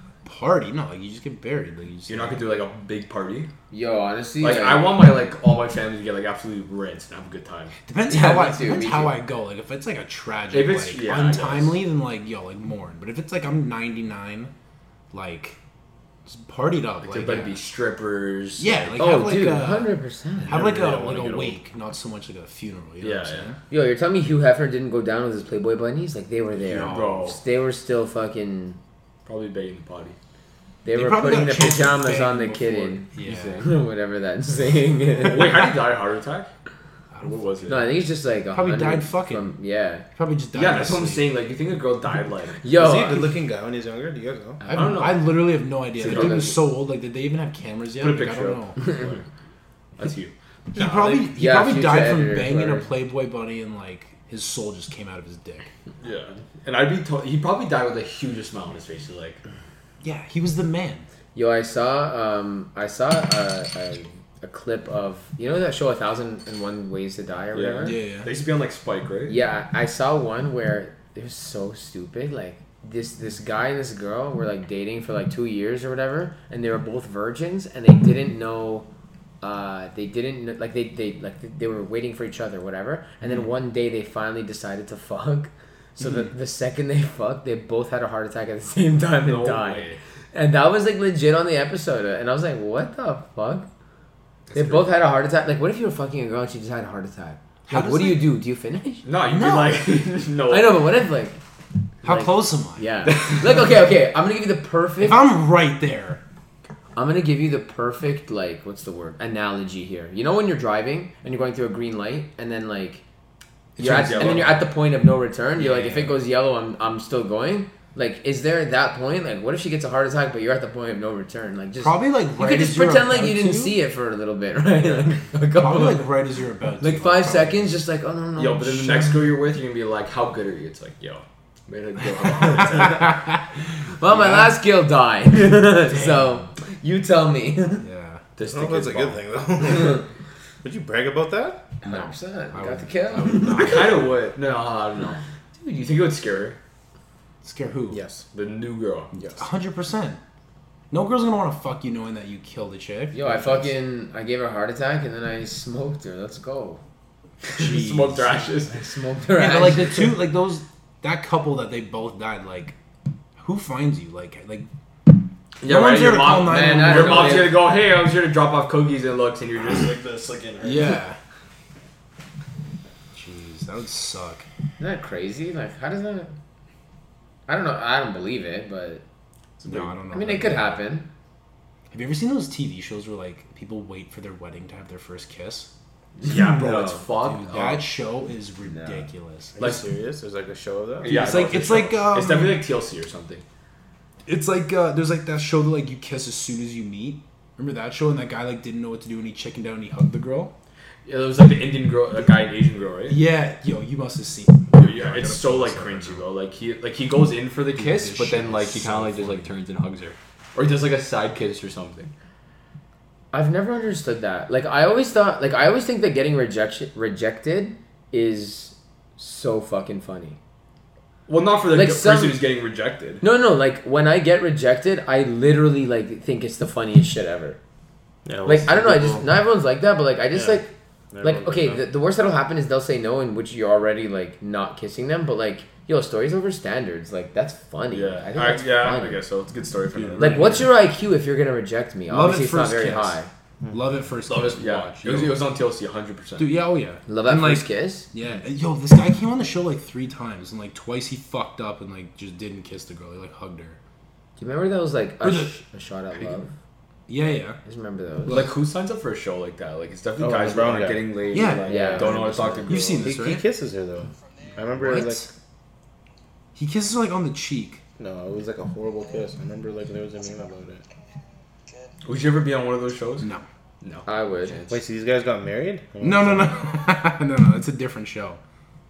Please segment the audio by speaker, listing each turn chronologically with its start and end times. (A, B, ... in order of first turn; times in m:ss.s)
0:00.2-0:02.5 A
0:02.1-0:03.5 B
0:03.7-0:04.9 C
0:04.4-0:07.8 B
0:07.9-0:14.5 A
0:08.1-0:09.2 C
0:10.5-0:11.8 B
0:15.1-0:15.6 A
0:16.3-0:17.6 A
0:17.0-0:19.0 B
0:18.6-0:20.0 A
0:19.0-0:20.6 C
0:20.5-0:23.6 A
0:20.5-0:21.6 D
0:23.0-0:23.5 B
0:23.7-0:28.8 C
0:26.6-0:27.3 A
0:26.7-0:27.4 B
0:29.2-0:30.2 B
0:30.8-0:35.7 C
0:30.9-0:33.7 A
0:33.3-0:33.6 B
0:35.2-0:36.5 B
0:37.1-0:37.4 A
0:37.2-0:37.9 B
0:37.7-0:40.0 C
0:38.5-0:39.5 A
0:40.2-0:41.3 A
0:40.5-0:42.6 B
0:42.6-0:43.3 C
0:42.7-0:44.6 D
0:44.6-0:45.1 C
0:44.7-0:48.8 A
0:44.7-0:45.4 B
0:46.0-0:46.6 B
0:46.0-0:46.5 C
0:48.0-0:49.2 B
0:50.0-0:51.2 B
0:50.7-0:55.7 A
0:51.3-0:52.9 C
0:56.0-0:59.4 B
1:00.0-1:01.1 A
1:01.4-1:08.0 C
1:07.5-1:09.4 B
1:07.8-1:08.3 A
1:09.3-1:18.9 C
1:19.4-1:33.7 C
1:29.2-1:30.0 B
1:34.5-1:34.9 B
1:34.5-1:39.0 C
1:37.7-1:38.4 A
1:39.0-1:40.9 B
1:39.3-1:39.9 A
1:40.5-1:41.4 C
1:42.0-1:42.9 A
1:42.0-1:45.2 C
1:43.1-1:43.5 B
1:45.0-1:46.2 A
1:47.0-1:53.0 C
1:53.8-1:54.5 A
1:53.8-1:54.7 B
1:53.8-2:06.1 C
1:55.6-1:56.2 A
2:01.8-2:03.8 A
2:05.5-2:07.8 A
2:06.8-2:09.3 C
2:08.4-2:13.2 B
2:12.7-2:13.2 A
2:14.0-2:17.8 C
2:14.1-2:14.5 A
2:15.9-2:16.4 A
2:17.8-2:18.2 A
2:18.4-2:19.3 B
2:18.4-2:20.0 D
2:20.6-2:21.6 D
2:21.8-2:23.9 C
2:21.8-2:24.2 A
2:23.5-2:26.6 B
2:27.4-2:28.0 A
2:27.9-2:28.2 D
2:28.3-2:29.4 B
2:29.4-2:30.2 A
2:30.9-2:33.7 A
2:33.1-2:36.8 C
2:37.5-2:38.8 B
2:37.5-2:38.5 A
2:38.7-2:40.2 C
2:39.4-2:42.8 A
2:43.4-2:44.7 A
2:45.6-2:51.0 B
2:45.6-2:47.6 A
2:46.4-2:47.6 C
2:50.6-2:51.2 A
2:53.1-2:54.5 A
2:54.8-2:56.3 C
2:57.5-2:59.0 C
2:59.6-2:59.9 B
2:59.6-3:00.8 A
3:00.1-3:01.1 C
3:01.9-3:05.7 A
3:06.2-3:07.0 C
3:06.2-3:07.9 B
3:07.2-3:09.8 A
3:08.7-3:09.0 C
3:09.6-3:11.4 D
3:11.0-3:13.4 B
3:11.0-3:12.7 A
3:14.3-3:20.5 A
3:21.1-3:23.2 B
3:23.1-3:26.3 A
3:24.7-3:32.1 B
3:27.8-3:29.5 A
3:33.3-3:40.4 C
3:41.3-3:43.2 B
3:41.7-3:42.4 C
3:43.2-3:47.6 C
3:48.2-3:49.3 D
3:48.4-3:50.7 C
3:50.3-3:51.8 D
3:51.2-3:59.2 C
3:57.9-4:00.7 B
4:00.0-4:00.6 A
4:00.2-4:03.3 C
4:02.1-4:03.2 A
4:03.7-4:05.4 A
4:04.3-4:06.5 B
4:06.4-4:13.8 A
4:07.1-4:08.1 C
4:14.4-4:16.5 C
4:15.2-4:15.6 A
4:17.1-4:17.6 A
4:17.6-4:18.5 C
4:18.3-4:23.1 B
4:20.2-4:21.2 D
4:21.3-4:23.5 A
4:21.7-4:22.7 C
4:23.0-4:25.3 D
4:24.8-4:25.3 A
4:26.6-4:27.8 A
4:28.0-4:30.8 D
4:32.0-4:33.3 B
4:33.8-4:34.7 B
4:34.1-4:34.7 C
4:34.7-4:36.6 D
4:36.0-4:38.4 A